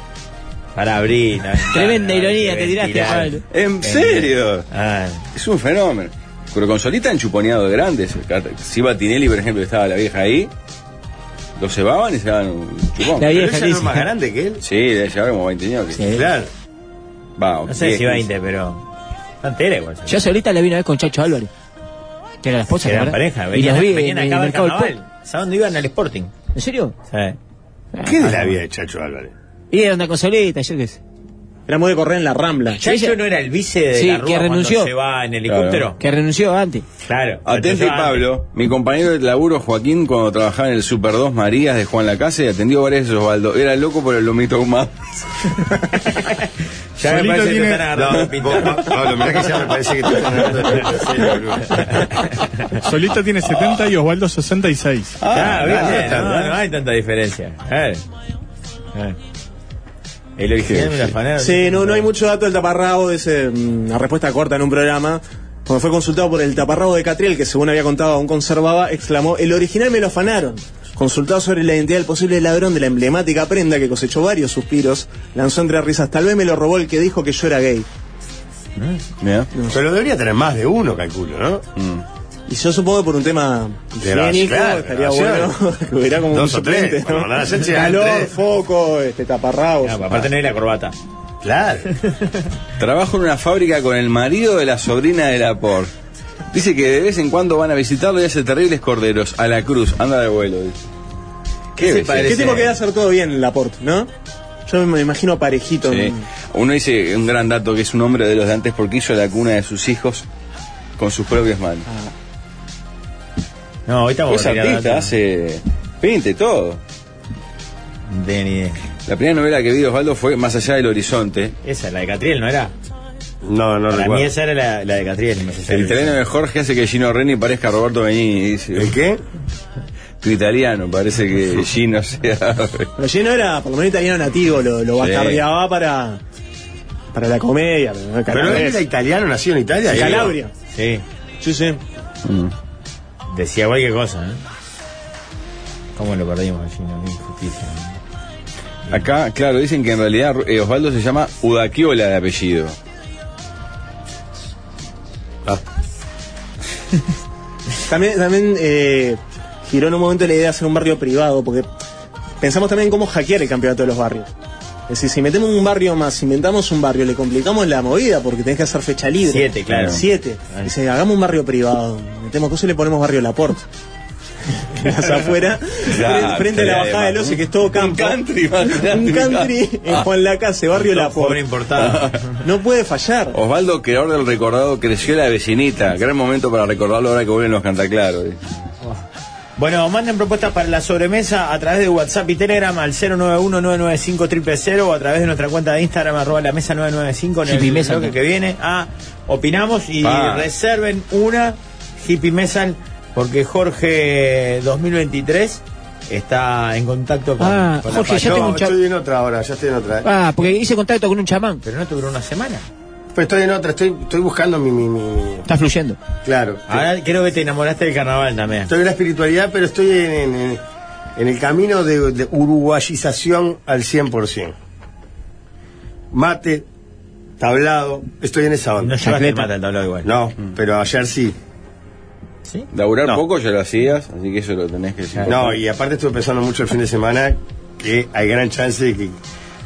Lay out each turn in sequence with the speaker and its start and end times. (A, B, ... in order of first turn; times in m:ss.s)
0:00.8-0:05.2 A
0:01.6-0:03.4 B
0:03.5-0:04.7 C
0:05.4-0:10.5 C
0:11.6-0:13.3 C
0:13.2-0:14.1 B
0:13.2-0:14.6 D
0:14.6-0:16.1 C
0:16.0-0:16.3 B
0:16.1-0:16.5 D
0:17.4-0:18.2 C
0:17.7-0:18.8 A
0:19.4-0:20.3 A
0:20.1-0:21.5 B
0:22.4-0:25.0 B
0:22.8-0:26.3 A
0:26.6-0:27.0 B
0:27.1-0:27.4 A
0:27.9-0:28.2 B
0:28.0-0:29.3 D
0:28.2-0:28.5 A
0:29.7-0:31.0 B
0:31.7-0:32.8 E
0:32.8-0:36.0 A
0:32.8-0:33.2 B
0:33.9-0:34.9 B
0:35.5-0:35.9 C
0:36.0-0:36.8 B
0:37.0-0:38.3 A
0:37.5-0:45.0 C
0:47.0-0:48.9 A
0:47.1-0:47.8 F
0:47.9-0:51.8 D
0:51.7-0:52.8 A
0:52.8-0:55.2 F
0:55.2-0:56.3 C
0:55.3-0:58.0 A
0:55.7-0:56.5 D
1:00.4-1:02.1 A
1:00.7-1:01.1 C
1:01.4-1:17.9 E
1:19.2-1:19.5 C
1:19.7-1:21.6 D
1:21.8-1:22.0 C
1:22.5-1:30.2 E
1:24.0-1:25.5 D
1:26.3-1:28.3 D
1:29.8-1:31.0 A
1:31.4-1:31.9 D
1:32.8-1:35.9 C
1:36.5-1:40.8 C
1:41.8-1:42.7 C
1:41.8-1:42.7 A
1:42.2-1:44.1 E
1:44.7-1:46.2 E
1:45.8-1:50.2 C
1:51.0-1:51.9 C
1:53.9-1:55.2 A
1:54.3-1:56.8 C
1:58.1-1:58.8 A
1:59.1-2:01.5 C
2:01.6-2:02.7 A
2:03.4-2:04.3 D
2:03.9-2:06.2 A
2:05.7-2:08.9 C
2:08.7-2:09.2 D
2:10.2-2:12.9 C
2:13.0-2:16.2 E
2:15.0-2:15.4 C
2:17.1-2:18.8 E
2:18.3-2:20.4 D
2:19.9-2:20.5 E
2:19.9-2:21.0 A
2:21.4-2:21.8 E
2:22.2-2:22.5 C
2:23.3-2:24.4 A
2:26.0-2:28.0 A
2:28.9-2:32.8 C
2:37.9-2:41.7 E
2:42.4-2:44.3 E
2:44.9-2:53.7 E
2:49.3-2:50.7 A
2:54.7-3:01.4 E
2:55.9-3:00.0 C
3:00.8-3:02.2 A
3:01.8-3:02.2 C
3:02.4-3:03.4 E
3:03.3-3:08.4 C
3:09.6-3:28.6 A
3:17.5-3:18.1 B
3:20.0-3:20.5 C
3:27.4-3:28.8 B
3:27.9-3:30.1 D
3:30.0-3:31.6 B
3:31.6-3:32.7 A
3:33.1-3:35.5 D
3:35.5-3:36.0 B
3:36.2-3:36.8 D
3:36.7-3:38.7 A
3:38.7-3:40.6 D
3:41.2-3:44.6 D
3:46.1-3:46.7 D
3:47.4-3:49.0 D
3:48.8-3:50.1 A
3:49.0-3:49.5 B
3:50.0-3:51.4 D
3:52.5-3:53.2 A
3:52.7-3:55.6 C
3:55.3-3:59.2 D